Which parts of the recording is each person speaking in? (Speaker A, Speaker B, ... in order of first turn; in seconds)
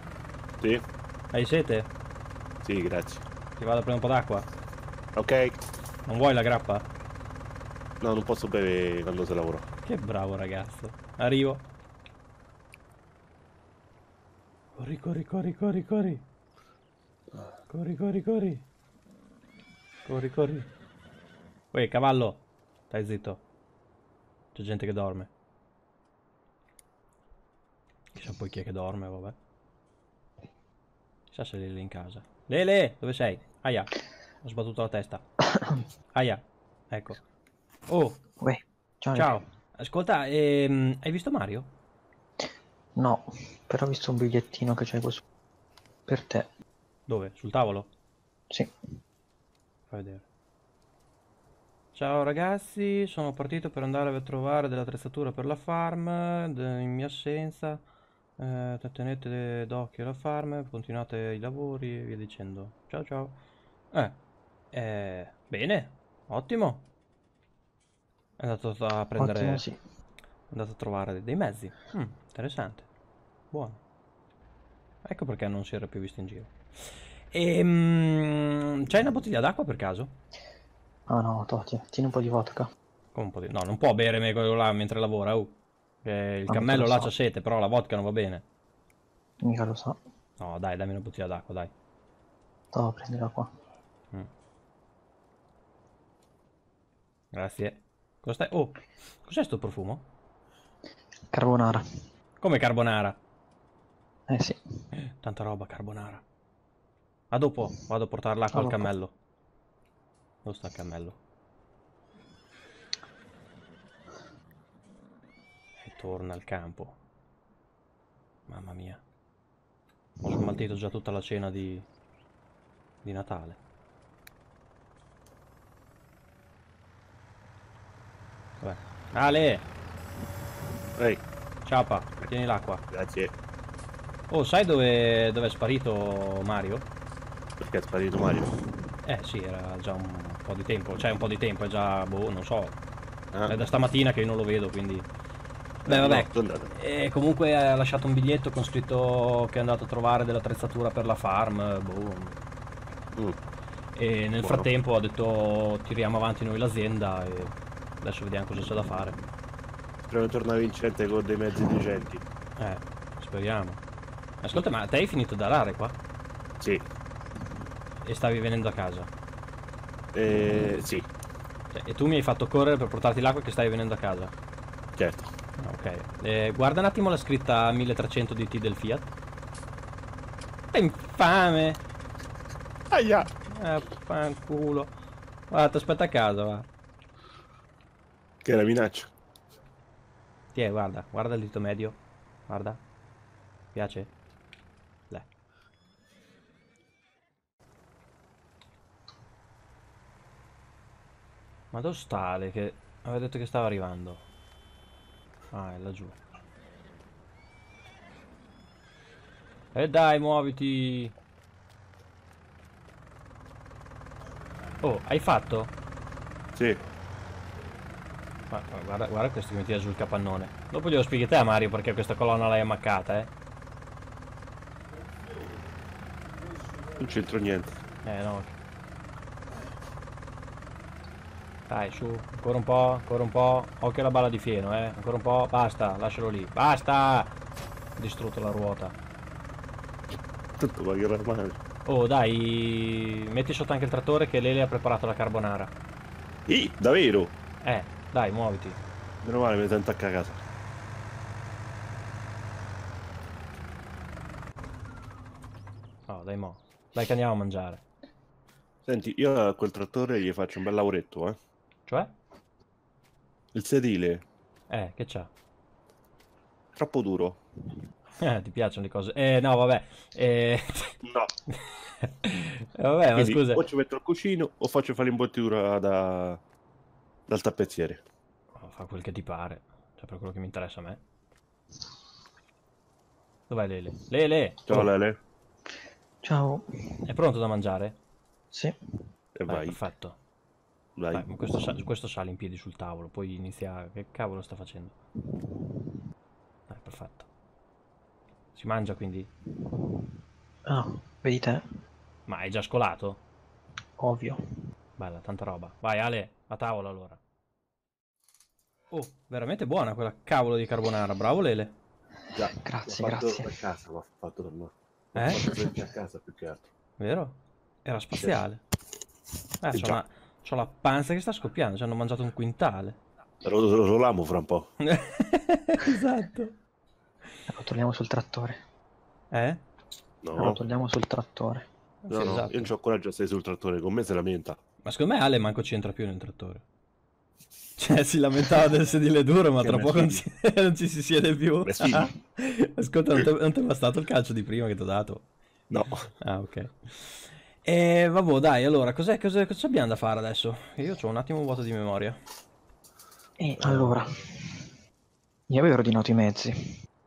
Speaker A: 1.3-1.9, 3.6-4.5, 6.0-6.9, 9.8-11.7, 14.8-16.2, 17.7-18.6, 20.1-20.7, 21.7-23.4, 24.6-25.3, 28.1-29.4, 31.3-35.2, 36.1-37.2, 37.9-38.2, 39.1-41.7, 47.1-47.9, 49.9-50.2, 51.9-57.8, 58.4-63.4, 63.9-64.2, 64.7-66.9, 68.4-69.6, 70.5-72.9, 73.5-73.8, 75.0-80.1, 83.1-88.5, 90.4-91.7, 97.3-100.0, 102.4-103.2, 105.1-106.2, 107.3-109.1, 110.5-111.2, 115.8-117.0, 118.5-119.0, 120.2-121.9, 123.0-123.6, 128.6-129.7, 131.6-132.8, 134.3-136.9, 139.0-142.8, 143.5-145.1, 145.8-152.4, 153.9-159.2, 162.6-163.8, 164.4-166.0, 168.0-169.1, 171.7-174.3, 175.6-179.1, 180.7-181.8, 183.5-184.9, 185.5-186.7, 190.5-192.8, 193.7-194.1, 201.7-204.2, 205.5-206.2, 209.7-211.1, 214.8-215.7, 218.5-223.3, 228.0-228.6, 231.7-237.3, 238.0-239.0, 241.8-245.7, 247.6-248.8, 256.1-257.8, 261.9-262.1, 264.7-265.3, 268.2-271.0, 271.5-273.6, 278.5-281.0, 283.5-284.9, 287.1-288.0, 289.5-290.2, 291.1-294.9, 296.7-297.3, 298.5-299.3, 302.3-303.2, 305.0-307.2, 308.9-311.8, 315.1-315.4, 317.0-318.6, 319.6-323.0, 324.8-326.5, 329.3-329.6, 332.0-332.7, 334.8-336.6, 337.8-345.3, 346.2-352.2
Speaker B: 2.6-3.2, 5.2-5.6, 8.0-9.7, 131.0-131.2, 132.9-133.3, 137.6-138.5, 143.3-143.7, 145.9-146.7, 153.1-153.4, 154.4-154.7, 160.1-162.2, 170.1-171.1, 175.0-175.3, 182.9-183.3, 188.4-189.1, 216.6-216.8, 227.0-227.8, 240.6-241.6, 246.5-247.3, 249.2-250.4, 258.9-261.4, 263.5-264.2, 266.8-267.4, 271.0-271.3, 273.2-276.4, 277.3-278.0, 284.7-285.2, 289.4-289.8, 291.0-291.3, 312.3-316.7, 319.7-320.0, 323.4-324.7, 330.2-330.6, 332.1-334.6, 339.6-340.2, 341.6-342.1, 345.7-346.1, 353.6-353.9
Speaker C: 38.4-39.4, 43.0-45.2, 46.1-46.5, 69.2-69.8, 81.1-82.7, 86.5-87.1, 89.4-90.0, 92.7-93.5, 101.3-101.8, 104.3-104.6, 108.5-108.9, 286.2-286.9, 295.4-295.9, 300.7-301.6, 304.0-304.4, 312.4-313.5, 327.5-328.6, 330.4-331.6, 353.4-354.7, 355.5-356.6